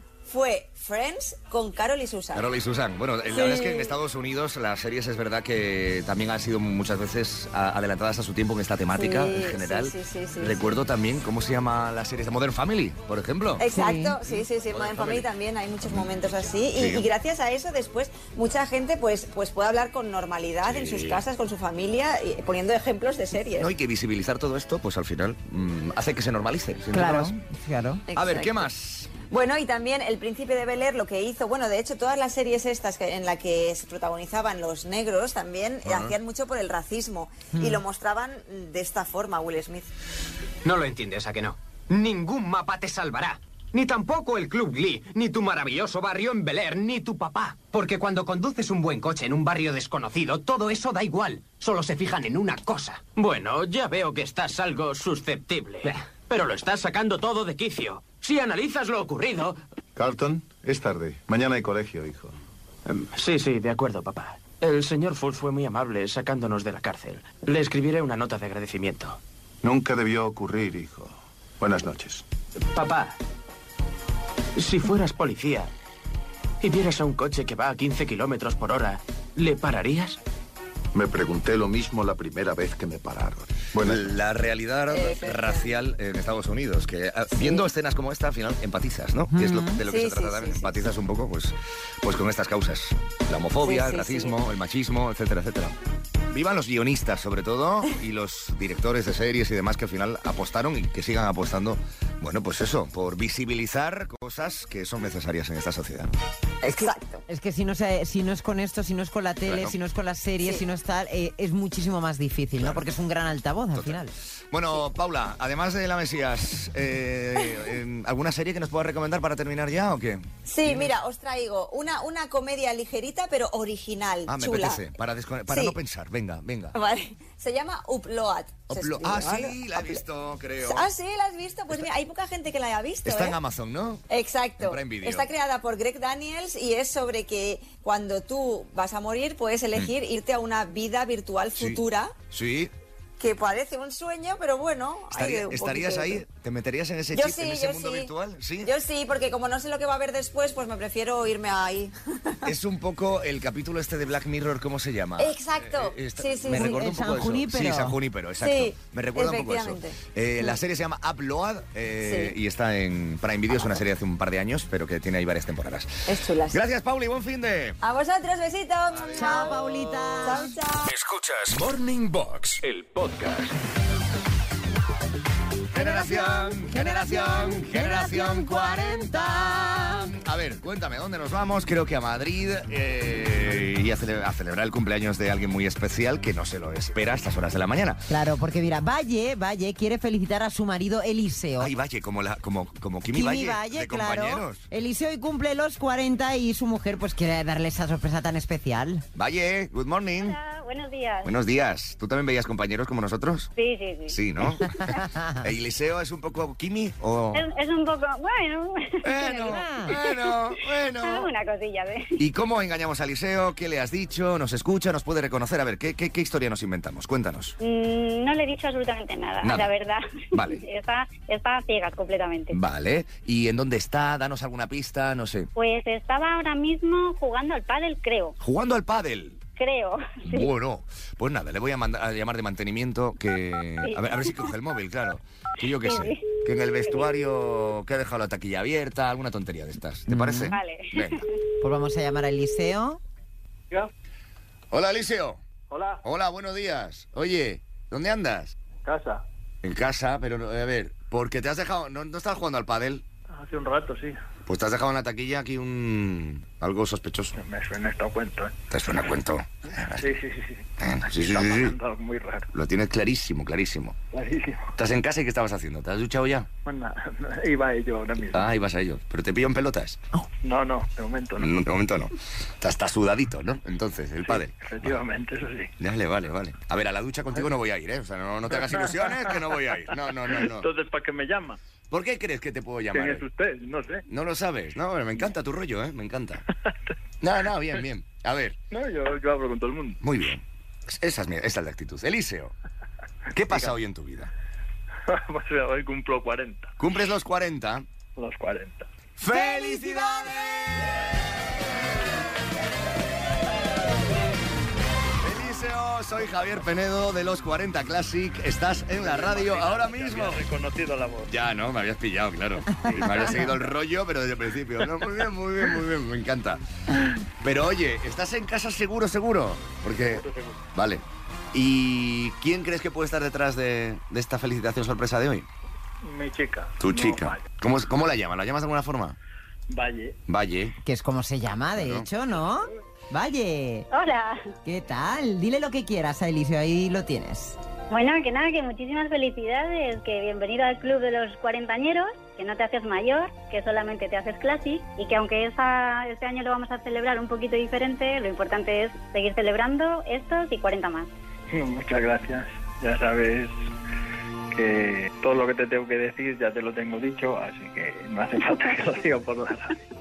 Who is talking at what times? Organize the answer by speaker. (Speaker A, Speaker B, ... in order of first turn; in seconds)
Speaker A: 0.2-2.5, 3.3-3.9, 8.9-10.7, 13.6-23.7, 28.1-28.7, 29.3-39.9, 84.9-85.7, 87.3-87.7, 89.8-90.9, 93.6-94.3, 106.6-107.2, 120.5-124.8, 125.5-125.8, 126.7-130.0, 130.6-133.4, 134.1-142.2, 143.2-146.2, 147.1-148.1, 148.6-152.5, 155.2-156.8, 158.4-160.5, 162.1-162.3, 166.1-166.6, 167.8-170.9
Speaker B: 2.3-13.7, 14.2-15.3, 15.8-16.1, 16.7-17.1, 20.6-21.2, 23.6-27.4, 28.1-29.1, 35.8-36.2, 83.8-95.8, 96.3-106.1, 109.5-109.8, 112.6-112.9, 113.8-120.9, 124.3-126.8, 128.7-130.9, 133.1-134.0, 134.6-135.3, 141.6-142.7, 145.1-148.7, 152.4-167.8, 175.7-188.0, 191.6-194.7, 199.2-200.4, 201.2-203.5, 204.1-207.4, 209.0-211.3, 212.2-217.6, 219.4-219.7, 220.3-220.6, 222.5-225.5, 228.4-229.4, 230.2-241.3, 244.7-245.4, 246.0-248.6, 249.6-253.0, 254.5-257.4, 258.7-260.1, 260.8-261.8, 262.5-264.0, 264.8-266.5, 268.3-270.0, 271.4-275.0, 275.8-280.7, 281.9-283.2, 284.1-286.4, 287.2-288.6, 290.0-292.5, 293.3-294.3, 296.8-297.9, 299.2-301.3, 305.2-310.4, 311.3-316.6, 317.4-325.5, 326.8-329.2, 330.3-330.8, 331.8-332.1
Speaker C: 13.7-14.2, 26.9-28.1, 37.5-37.8, 89.3-89.8, 107.3-114.1, 156.5-158.0, 169.1-170.6, 175.7-180.1, 188.1-191.7, 193.1-199.1, 204.8-205.4, 209.4-209.9, 240.1-240.5, 241.6-243.0, 299.3-300.2, 312.7-313.5, 330.8-333.9, 334.6-337.6
Speaker D: 40.6-59.6
Speaker E: 60.0-62.3, 69.6-72.2, 80.9-84.1
Speaker F: 62.9-69.2, 72.6-73.2, 74.6-75.7, 76.6-80.2
Speaker G: 170.9-173.6
Speaker H: 200.2-201.3, 203.6-204.2, 207.3-210.4, 211.0-212.2, 217.6-222.6, 225.6-228.3, 229.6-230.5, 233.8-234.4, 235.8-236.3, 240.5-241.2, 333.9-334.5, 337.9-351.1
Speaker I: 245.7-246.0, 248.8-249.2, 253.3-254.2, 257.4-258.6, 260.0-262.5, 264.1-264.7, 266.7-268.5, 270.4-271.5, 274.3-275.7, 278.6-279.5, 280.3-281.6, 282.9-284.0, 288.7-290.0, 295.1-296.7, 298.2-298.9, 308.9-311.4, 320.0-320.6, 326.0-327.5, 329.7-330.2, 351.5-353.6, 354.5-359.8